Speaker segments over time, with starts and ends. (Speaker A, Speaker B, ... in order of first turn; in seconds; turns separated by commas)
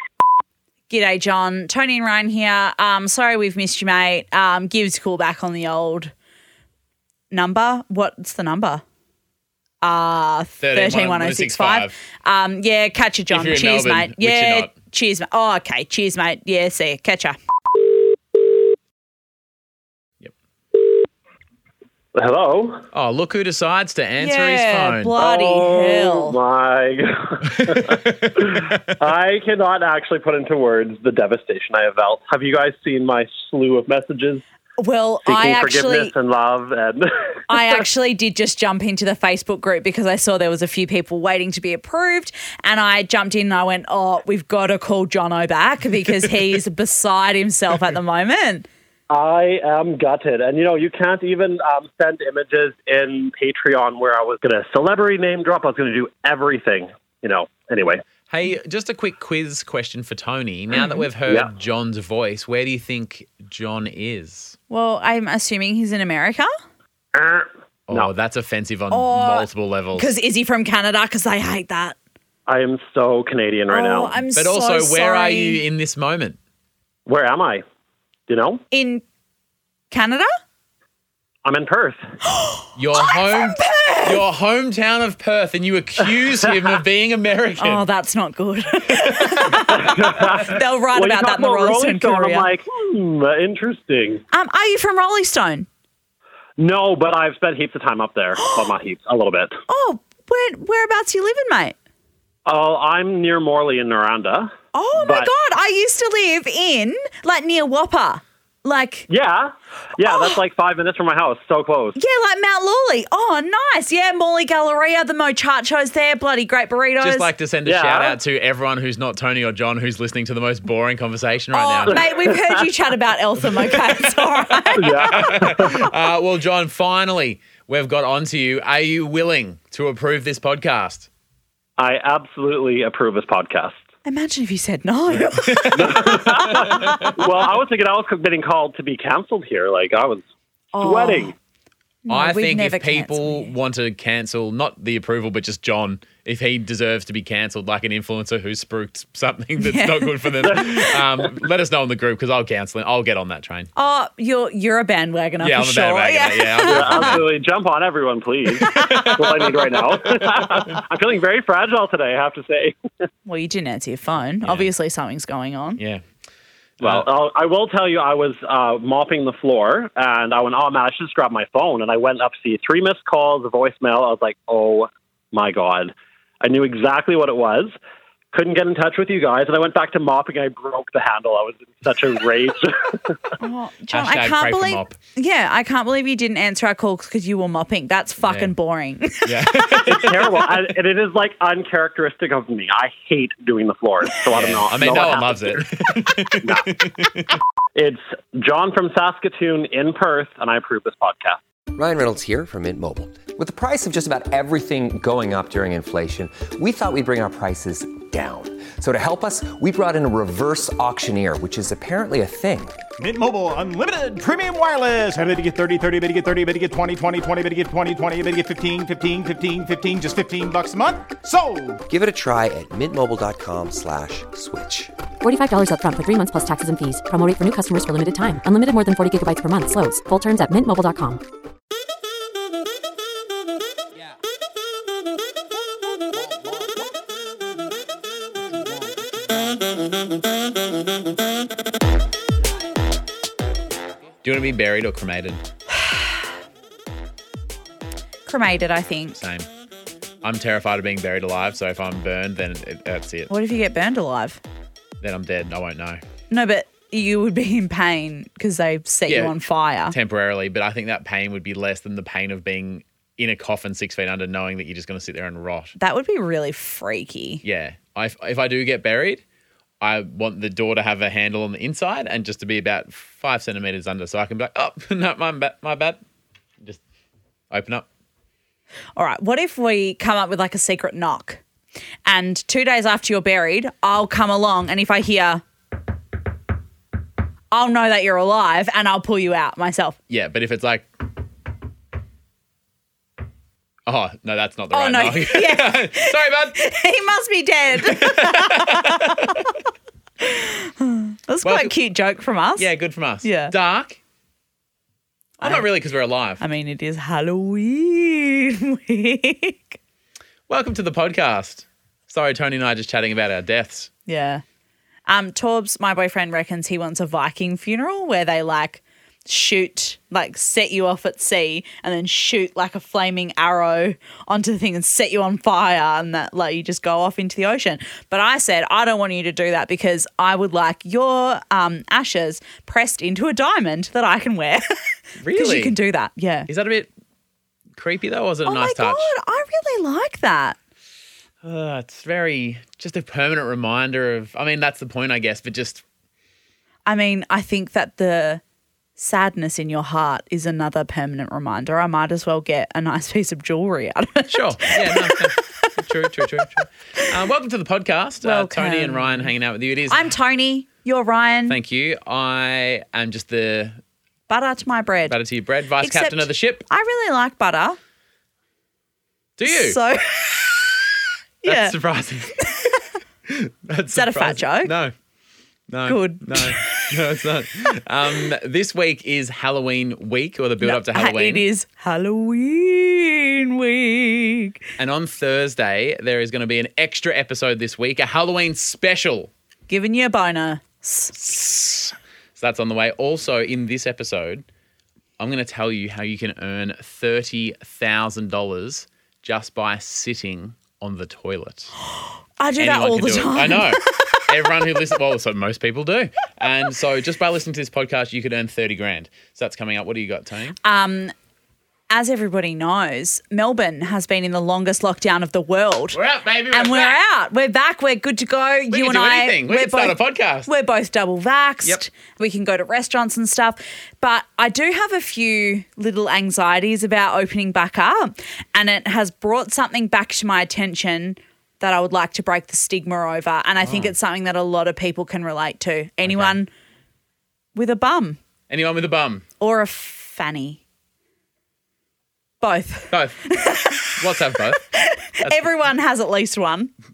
Speaker A: 0.9-6.1, Speaker A: 7.3-8.8, Speaker A: 9.8-17.4, Speaker B: 10.6-11.9, Speaker B: 13.3-14.7, Speaker C: 22.1-22.8, Speaker B: 22.9-25.1, Speaker A: 24.2-26.4, Speaker C: 25.2-34.4, Speaker B: 27.6-28.9, Speaker A: 34.8-36.1, Speaker C: 35.2-37.8, Speaker A: 37.5-48.7, Speaker C: 49.1-58.0, Speaker B: 58.3-64.5, Speaker A: 64.7-66.5, Speaker C: 67.1-68.1, Speaker B: 67.9-70.1, Speaker A: 68.9-72.0, Speaker C: 72.5-74.2, Speaker A: 73.7-75.6, Speaker B: 74.3-76.4, Speaker C: 77.1-77.6, Speaker C: 78.3-78.6, Speaker A: 78.7-79.0, Speaker A: 79.9-80.3, Speaker C: 81.4-82.0, Speaker A: 82.2-84.2, Speaker B: 82.8-87.8, Speaker A: 87.6-92.5, Speaker C: 89.5-94.2, Speaker A: 94.3-95.7, Speaker C: 96.6-99.6, Speaker A: 98.3-98.7, Speaker A: 99.7-101.7, Speaker C: 102.5-105.3, Speaker A: 104.7-109.1, Speaker C: 109.1-112.0, Speaker A: 110.0-110.4, Speaker A: 112.0-117.3, Speaker B: 117.0-122.0, Speaker C: 117.7-118.2, Speaker A: 121.5-125.9, Speaker C: 121.9-122.6, Speaker B: 123.5-131.1, Speaker C: 124.8-125.9, Speaker C: 131.8-133.8, Speaker A: 134.0-136.3, Speaker B: 135.4-137.1, Speaker C: 135.7-140.2, Speaker A: 140.7-141.3, Speaker C: 140.8-141.3, Speaker A: 142.0-143.5, Speaker B: 142.1-153.7, Speaker A: 149.6-150.9, Speaker C: 150.4-150.9, Speaker A: 153.7-157.2, Speaker B: 155.4-157.2, Speaker C: 156.7-162.8, Speaker B: 158.7-160.2, Speaker A: 158.7-159.1, Speaker A: 163.2-165.8, Speaker B: 164.4-164.7, Speaker B: 165.8-166.0, Speaker B: 166.8-167.1, Speaker C: 166.8-177.7, Speaker C: 178.3-183.3, Speaker A: 183.4-189.9, Speaker B: 183.9-185.0, Speaker B: 188.2-188.5, Speaker B: 189.2-190.5, Speaker C: 189.8-195.7, Speaker B: 194.3-197.2, Speaker C: 196.3-196.7, Speaker C: 197.8-201.4, Speaker D: 201.7-212.8, Speaker E: 213.0-221.8, Speaker D: 221.9-224.9, Speaker F: 225.2-231.2, Speaker B: 244.2-245.4, Speaker A: 245.7-246.1, Speaker A: 248.3-249.2, Speaker B: 249.2-249.5, Speaker B: 250.2-253.3, Speaker A: 253.3-254.4, Speaker B: 255.0-256.0, Speaker A: 256.3-259.9, Speaker B: 259.1-259.4, Speaker B: 259.9-265.7, Speaker A: 265.8-267.4, Speaker B: 267.4-269.2, Speaker B: 269.8-276.0, Speaker B: 277.5-277.9, Speaker A: 278.9-281.4, Speaker A: 282.0-285.4, Speaker A: 287.5-290.0, Speaker B: 290.1-290.9, Speaker B: 293.9-296.6, Speaker A: 294.7-299.5, Speaker B: 297.8-299.5, Speaker A: 300.2-302.7, Speaker B: 301.4-301.7, Speaker B: 302.6-304.0, Speaker A: 303.2-303.5, Speaker B: 305.4-306.4, Speaker A: 306.4-309.8, Speaker B: 310.5-313.9, Speaker A: 314.1-314.4, Speaker A: 315.1-334.7, Speaker B: 335.2-335.7, Speaker A: 335.3-336.5, Speaker B: 336.5-336.9, Speaker B: 337.8-339.1, Speaker A: 338.4-340.6, Speaker B: 341.4-345.8, Speaker A: 346.9-348.4, Speaker A: 349.0-356.5, Speaker B: 354.3-360.1, Speaker A: 358.2-359.3, Speaker A: 359.9-361.6, Speaker B: 361.5-363.8, Speaker A: 364.3-365.1, Speaker B: 365.1-366.6, Speaker A: 365.8-367.8, Speaker B: 369.4-369.8, Speaker A: 369.4-370.4, Speaker A: 371.4-371.8, Speaker B: 371.4-372.7, Speaker B: 373.3-374.9, Speaker A: 373.9-374.7, Speaker B: 375.7-381.4, Speaker A: 375.9-377.1, Speaker A: 380.6-384.6, Speaker B: 384.8-389.3, Speaker A: 389.7-391.1, Speaker B: 391.1-394.4, Speaker B: 395.2-401.7, Speaker A: 402.4-404.8, Speaker B: 402.6-410.6, Speaker A: 410.6-411.1, Speaker A: 411.9-416.0, Speaker B: 415.9-417.0, Speaker A: 416.5-436.5, Speaker B: 418.7-420.5, Speaker B: 433.6-433.9, Speaker B: 436.0-436.4, Speaker A: 437.5-438.2, Speaker B: 438.5-439.2, Speaker A: 439.4-440.6, Speaker A: 442.4-444.0, Speaker B: 442.9-444.6, Speaker A: 444.6-446.7, Speaker B: 445.2-445.5